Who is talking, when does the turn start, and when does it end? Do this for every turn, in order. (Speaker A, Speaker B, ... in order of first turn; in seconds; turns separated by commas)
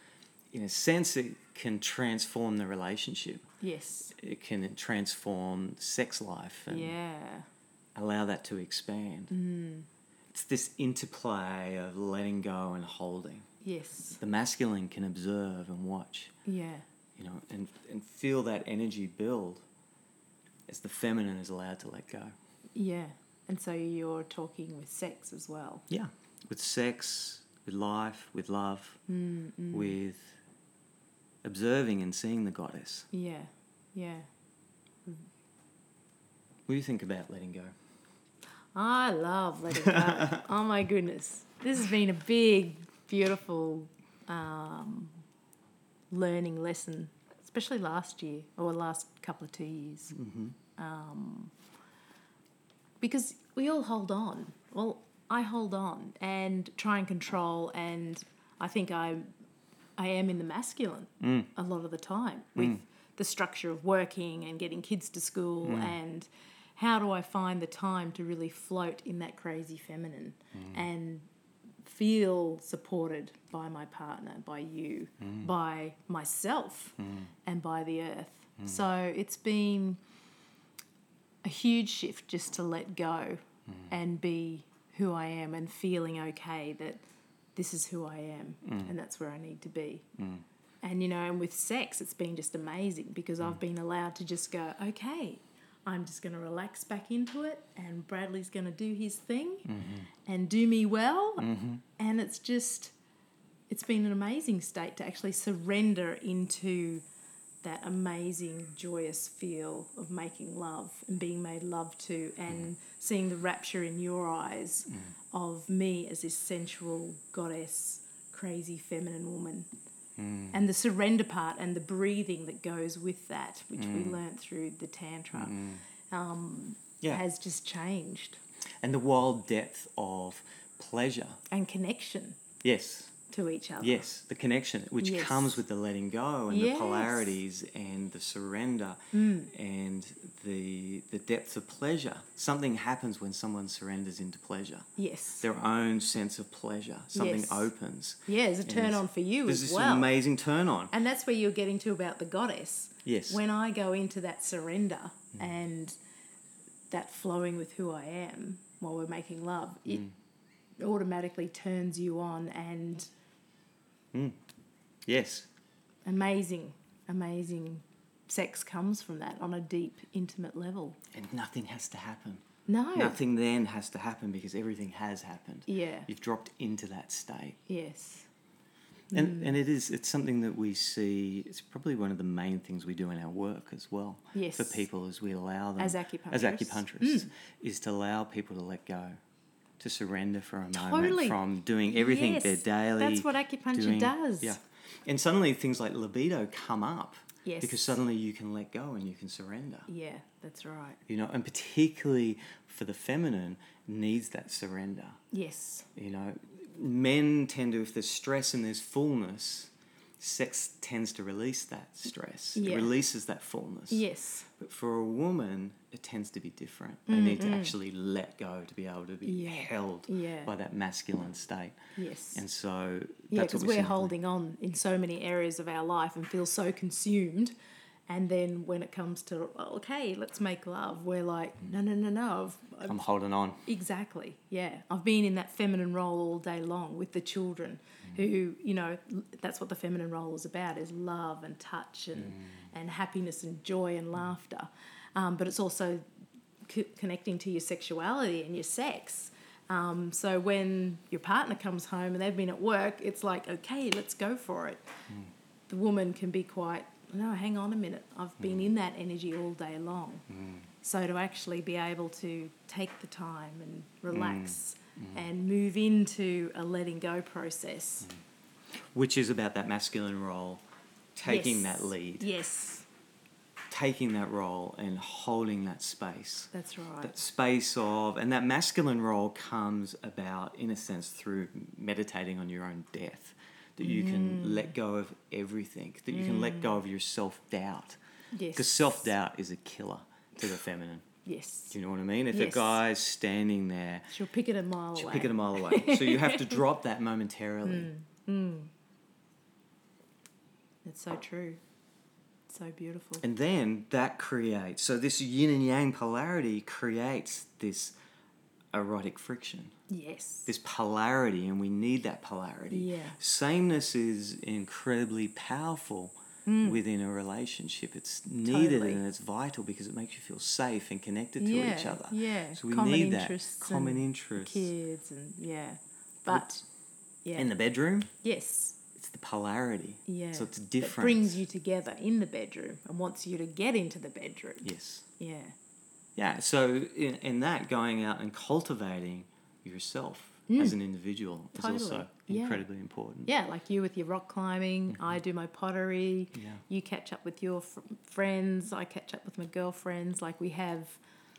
Speaker A: 0.5-3.5, Speaker B: 3.6-4.1, Speaker A: 4.1-6.9, Speaker B: 6.7-7.5, Speaker A: 8.0-9.3, Speaker B: 9.3-9.9, Speaker A: 10.3-13.5, Speaker B: 13.6-14.2, Speaker A: 14.2-16.3, Speaker B: 16.5-16.9, Speaker A: 17.2-19.6, Speaker A: 20.7-22.3, Speaker B: 22.7-25.9, Speaker A: 25.9-29.0, Speaker B: 29.1-30.0, Speaker A: 29.7-30.4, Speaker A: 31.4-33.1, Speaker B: 33.1-34.3, Speaker A: 36.7-37.8, Speaker B: 38.7-45.2, Speaker A: 39.8-40.4, Speaker B: 46.1-50.1, Speaker A: 50.1-50.5, Speaker B: 50.8-51.5, Speaker B: 53.0-59.3, Speaker B: 60.0-71.3, Speaker A: 61.2-61.5, Speaker A: 65.6-66.0, Speaker A: 70.5-70.8, Speaker B: 71.8-80.0, Speaker A: 75.2-75.5, Speaker A: 77.0-77.3, Speaker B: 81.4-87.0, Speaker B: 87.5-90.1, Speaker A: 88.6-88.9, Speaker A: 90.2-90.4, Speaker B: 90.8-99.7, Speaker A: 99.7-100.1, Speaker B: 100.2-102.9, Speaker A: 101.4-101.8, Speaker B: 103.7-107.0, Speaker B: 107.6-119.7, Speaker A: 120.2-120.6, Speaker B: 120.5-125.6, Speaker A: 123.8-124.2, Speaker A: 125.3-125.8, Speaker B: 126.1-128.4, Speaker A: 128.8-131.4, Speaker B: 131.5-132.4, Speaker A: 132.6-133.2, Speaker B: 133.3-134.1, Speaker A: 133.8-144.9, Speaker B: 135.0-135.6, Speaker B: 136.5-137.4, Speaker B: 139.1-139.5, Speaker B: 145.0-145.4, Speaker A: 145.4-150.9, Speaker B: 147.1-147.7, Speaker B: 148.3-150.1, Speaker B: 150.9-156.0, Speaker A: 153.1-153.4, Speaker B: 156.9-160.1, Speaker B: 160.8-163.1, Speaker A: 165.1-165.5, Speaker B: 166.1-171.0, Speaker A: 171.1-172.4, Speaker B: 172.7-173.2, Speaker A: 172.9-177.6, Speaker B: 175.7-176.1, Speaker B: 177.7-178.3, Speaker B: 179.1-179.6, Speaker A: 179.1-189.2, Speaker B: 184.3-184.9, Speaker B: 185.8-187.3, Speaker A: 189.8-199.9, Speaker B: 190.7-194.6, Speaker B: 197.4-198.0, Speaker B: 199.9-201.0, Speaker A: 201.1-205.2, Speaker B: 205.3-205.9, Speaker A: 205.9-214.1, Speaker B: 212.6-212.9, Speaker B: 213.9-214.5, Speaker A: 214.6-221.8, Speaker B: 217.1-217.8, Speaker B: 219.2-220.5, Speaker B: 222.0-222.4, Speaker A: 222.3-224.1, Speaker B: 223.3-227.5, Speaker B: 228.1-233.0, Speaker A: 232.8-233.7, Speaker B: 233.7-246.0, Speaker B: 246.7-254.8, Speaker B: 255.7-260.2, Speaker A: 258.4-258.7, Speaker A: 260.3-260.7, Speaker B: 260.8-268.1, Speaker A: 264.1-265.2, Speaker A: 268.9-270.6, Speaker A: 271.2-272.3, Speaker B: 271.2-272.9, Speaker A: 273.7-288.0, Speaker B: 276.5-277.1, Speaker B: 283.8-284.7, Speaker B: 286.1-286.8, Speaker B: 288.3-289.0, Speaker A: 288.5-291.1, Speaker B: 291.2-291.8, Speaker A: 291.7-294.2, Speaker B: 292.3-292.8, Speaker B: 294.1-296.6, Speaker A: 294.9-297.9, Speaker B: 297.6-298.7, Speaker B: 300.9-301.6, Speaker B: 302.5-303.2, Speaker A: 303.2-307.9, Speaker A: 308.7-309.7, Speaker B: 309.9-310.5, Speaker A: 310.5-324.7, Speaker B: 312.7-313.2, Speaker B: 316.5-316.8, Speaker B: 318.4-319.0, Speaker B: 321.4-326.6, Speaker B: 327.2-327.5, Speaker A: 327.4-328.1, Speaker B: 328.2-328.8, Speaker A: 328.9-331.4, Speaker B: 330.1-334.7, Speaker A: 334.6-335.1, Speaker B: 335.2-335.6, Speaker A: 336.2-343.3, Speaker B: 340.5-340.8, Speaker B: 341.6-342.7, Speaker B: 343.3-351.0, Speaker A: 346.4-346.6